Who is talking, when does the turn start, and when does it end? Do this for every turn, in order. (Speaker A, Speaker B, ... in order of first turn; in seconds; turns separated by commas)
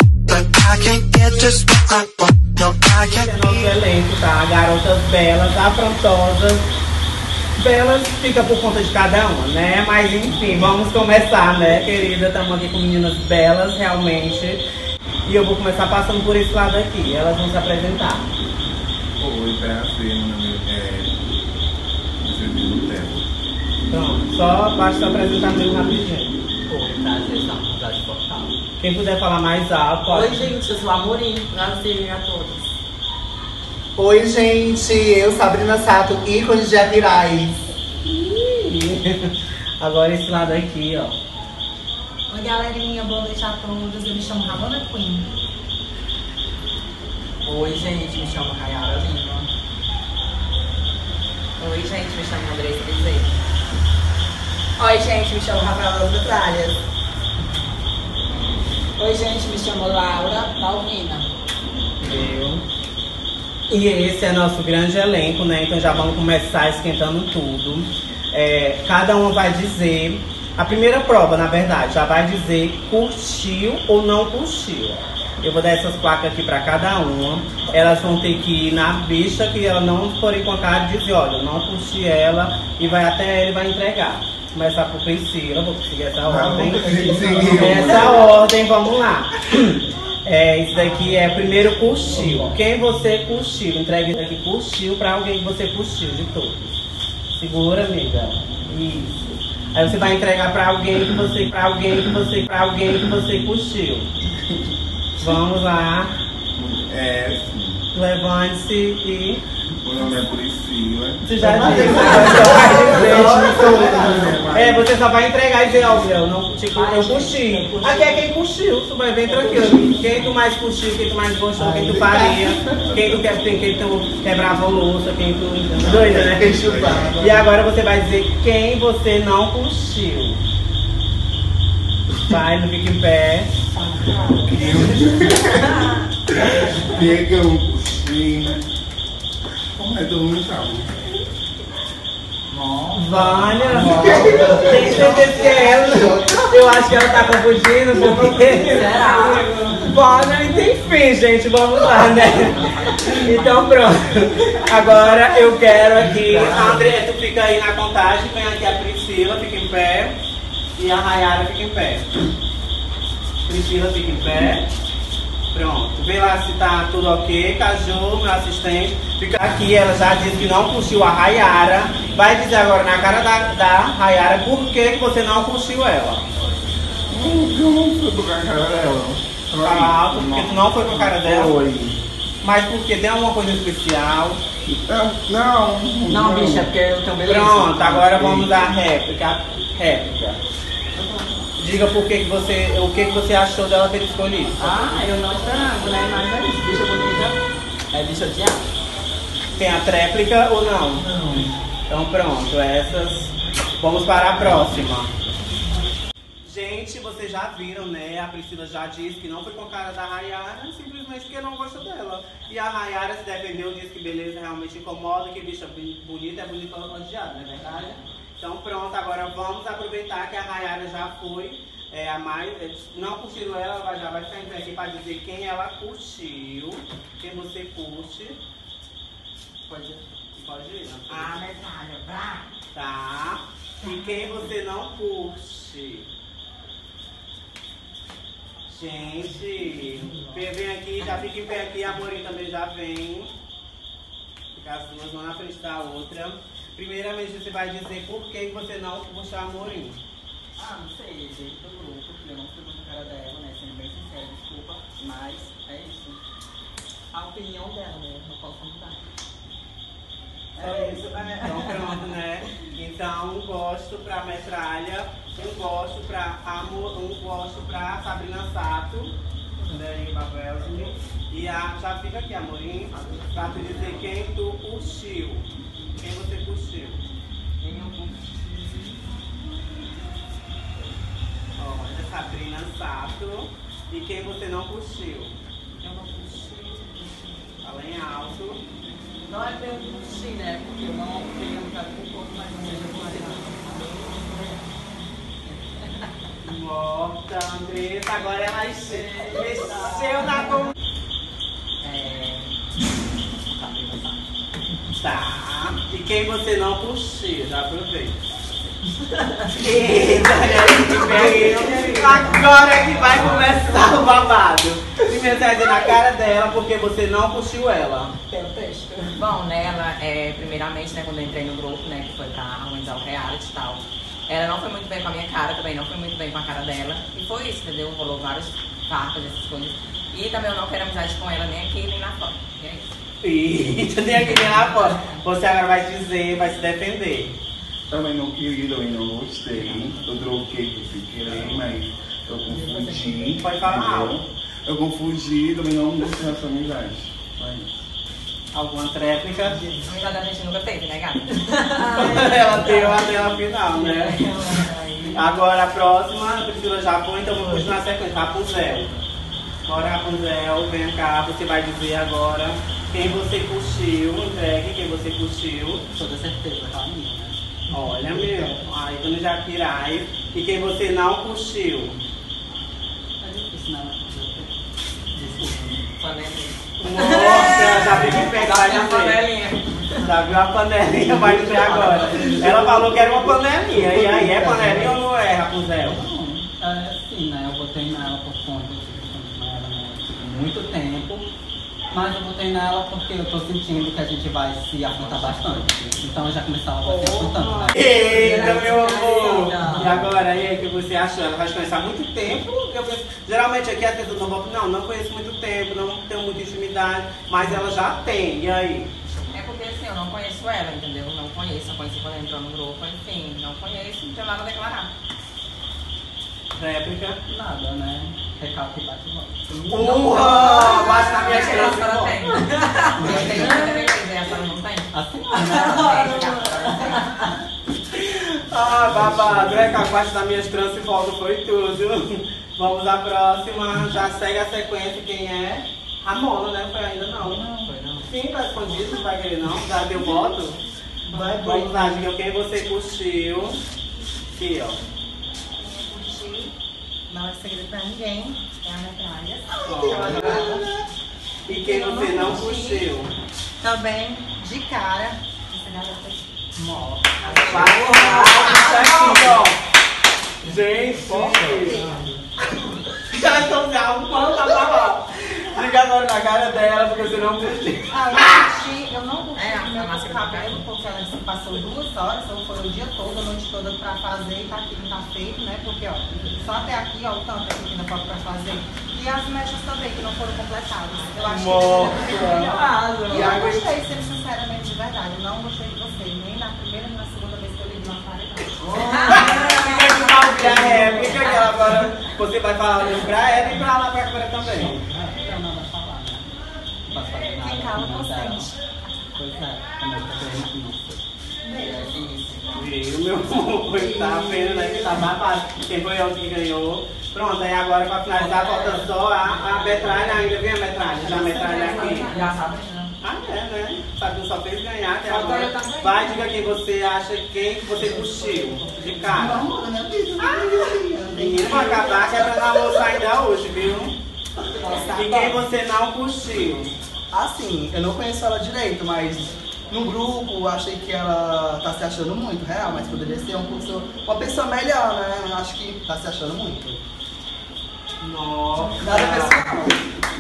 Speaker A: 0.3-3.7, Speaker B: 3.0-6.7, Speaker B: 7.6-14.6, Speaker B: 15.2-18.3, Speaker C: 19.2-21.2, Speaker C: 22.2-23.3, Speaker B: 23.9-26.4, Speaker D: 26.7-28.6, Speaker B: 28.8-30.5, Speaker D: 30.1-32.7, Speaker E: 34.0-37.7, Speaker B: 38.0-41.2, Speaker F: 42.3-45.3, Speaker D: 47.4-49.5, Speaker G: 51.6-53.3, Speaker F: 54.8-55.1, Speaker D: 55.1-56.7, Speaker D: 59.0-61.1, Speaker F: 59.5-61.0, Speaker B: 62.0-62.6, Speaker B: 63.7-96.8, Speaker C: 86.3-88.3, Speaker E: 86.5-87.8, Speaker D: 90.8-91.2, Speaker D: 91.9-92.5, Speaker B: 97.3-104.1, Speaker B: 105.2-106.1, Speaker C: 106.6-107.8, Speaker B: 107.9-109.4, Speaker C: 109.8-114.9, Speaker B: 111.2-113.9, Speaker E: 111.4-114.5, Speaker F: 112.8-113.3, Speaker B: 114.5-126.7, Speaker D: 116.7-118.2, Speaker E: 121.6-123.2, Speaker C: 125.8-127.3, Speaker E: 125.9-127.5, Speaker B: 127.2-130.4, Speaker B: 132.2-133.5, Speaker F: 133.8-134.8, Speaker C: 134.4-135.8, Speaker C: 136.4-138.6, Speaker C: 139.8-141.0, Speaker D: 142.5-145.6, Speaker B: 142.9-149.1, Speaker E: 143.9-144.9, Speaker F: 144.4-145.2, Speaker E: 145.9-146.2, Speaker D: 147.9-150.6, Speaker G: 148.9-149.4, Speaker B: 149.9-160.2, Speaker D: 152.2-153.7, Speaker D: 156.1-156.8, Speaker B: 160.8-162.1, Speaker B: 163.4-164.7, Speaker B: 165.5-176.3, Speaker C: 177.1-182.0, Speaker B: 179.6-181.6, Speaker B: 182.4-184.4, Speaker C: 184.7-186.7, Speaker D: 186.1-188.2, Speaker B: 187.2-190.4, Speaker C: 188.1-188.7, Speaker D: 191.0-191.4, Speaker B: 191.6-194.7, Speaker D: 194.6-197.4, Speaker D: 197.9-198.7, Speaker B: 199.6-201.1, Speaker B: 201.9-205.1, Speaker B: 206.4-228.4, Speaker D: 229.7-230.1, Speaker B: 230.3-231.4, Speaker G: 231.1-232.3, Speaker B: 232.7-236.1, Speaker B: 238.7-243.3, Speaker B: 244.5-250.0, Speaker D: 250.6-256.2, Speaker D: 257.1-259.0, Speaker D: 260.6-262.0, Speaker B: 260.6-269.1, Speaker B: 269.7-275.5, Speaker D: 272.9-274.0, Speaker B: 276.0-277.0, Speaker D: 277.6-278.4, Speaker B: 281.6-285.4, Speaker D: 285.8-287.1, Speaker B: 287.6-288.6, Speaker D: 289.2-294.7, Speaker D: 295.5-295.9, Speaker B: 296.4-300.7, Speaker D: 298.9-300.3, Speaker D: 301.8-302.5, Speaker D: 303.6-304.2, Speaker B: 305.0-308.2, Speaker B: 309.5-318.1, Speaker D: 311.0-313.6, Speaker D: 318.3-319.2, Speaker G: 319.1-332.9, Speaker B: 333.2-337.4, Speaker G: 334.4-335.2, Speaker C: 337.9-347.8, Speaker B: 341.2-341.6, Speaker E: 342.5-343.4, Speaker B: 343.4-344.2, Speaker B: 348.5-349.6, Speaker G: 349.8-353.0, Speaker D: 351.8-352.3, Speaker B: 351.9-354.2, Speaker D: 353.8-355.2, Speaker G: 354.1-355.2, Speaker B: 355.1-359.0, Speaker B: 359.7-365.8, Speaker D: 365.9-367.4, Speaker B: 367.7-372.0, Speaker E: 368.2-368.5, Speaker D: 373.2-374.5, Speaker D: 375.1-375.9, Speaker G: 376.0-380.1, Speaker B: 376.8-379.2, Speaker B: 380.0-386.0, Speaker D: 381.1-382.9, Speaker E: 384.0-385.0, Speaker D: 385.8-391.3, Speaker D: 391.9-400.3, Speaker B: 396.8-408.9, Speaker G: 409.3-414.9, Speaker B: 416.6-417.2, Speaker D: 417.3-421.0, Speaker B: 419.7-422.2, Speaker G: 420.1-427.1, Speaker D: 422.6-423.9, Speaker D: 424.9-427.4, Speaker B: 427.9-437.4, Speaker D: 428.7-429.8, Speaker D: 437.2-438.1, Speaker F: 437.4-437.7, Speaker B: 438.1-443.6, Speaker F: 441.1-442.0, Speaker B: 444.3-444.8, Speaker F: 445.6-446.6, Speaker F: 447.1-450.7, Speaker B: 449.6-450.6, Speaker D: 449.9-450.2, Speaker B: 451.5-453.1, Speaker F: 451.5-452.9, Speaker F: 453.6-456.2, Speaker D: 456.6-458.6, Speaker B: 457.2-459.6, Speaker F: 457.5-459.4, Speaker B: 460.4-461.9, Speaker F: 461.5-462.0, Speaker B: 463.1-468.6, Speaker F: 467.9-491.8, Speaker G: 469.3-470.7, Speaker B: 481.2-482.7, Speaker D: 482.1-483.6, Speaker D: 488.6-489.5, Speaker B: 489.1-494.8, Speaker D: 490.7-490.9, Speaker D: 494.5-496.3, Speaker D: 496.9-498.5, Speaker F: 497.4-499.1, Speaker D: 499.2-501.0, Speaker F: 501.4-501.9, Speaker D: 501.6-502.6, Speaker B: 502.5-512.1, Speaker F: 503.7-504.8, Speaker D: 508.1-510.4, Speaker D: 511.0-512.9, Speaker F: 511.1-512.5, Speaker B: 513.0-519.5, Speaker D: 515.1-516.0, Speaker F: 515.9-516.4, Speaker D: 517.9-519.3, Speaker E: 519.1-521.9, Speaker B: 520.2-524.0, Speaker D: 524.5-525.3, Speaker B: 524.9-526.8, Speaker E: 527.1-536.8, Speaker B: 538.0-539.5, Speaker E: 538.8-539.4